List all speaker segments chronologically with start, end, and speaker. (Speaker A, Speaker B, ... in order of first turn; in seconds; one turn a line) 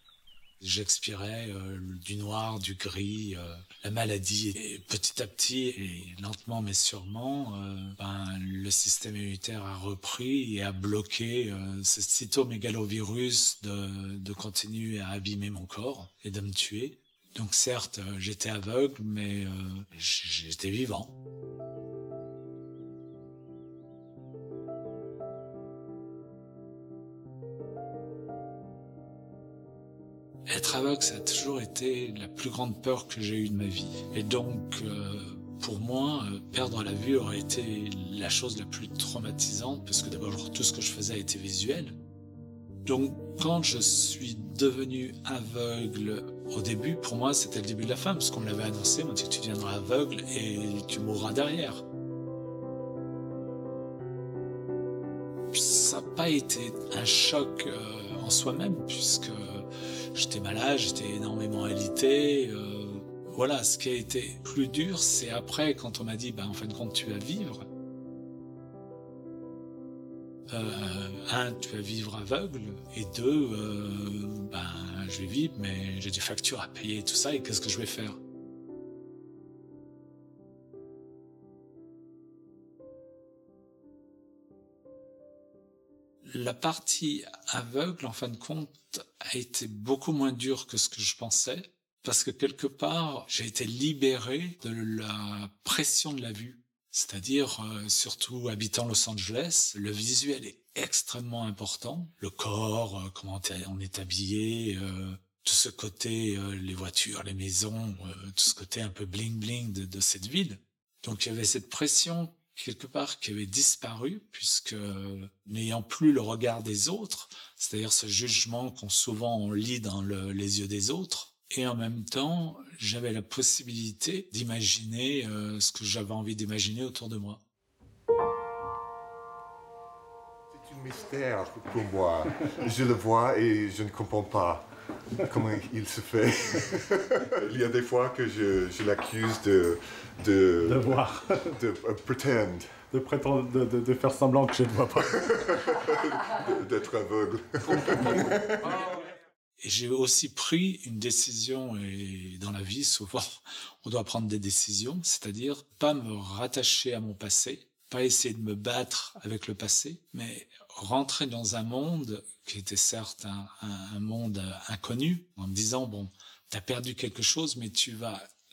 Speaker A: 0.6-21.1
Speaker A: 30.5-42.0
Speaker A: 42.8-51.8
Speaker A: 55.5-67.7
Speaker A: 70.5-78.2
Speaker A: 86.2-127.4
Speaker B: 130.5-134.6
Speaker B: 135.2-140.9
Speaker C: 140.6-141.4
Speaker B: 141.5-142.7
Speaker C: 142.9-145.6
Speaker B: 145.1-148.8
Speaker A: 149.6-168.2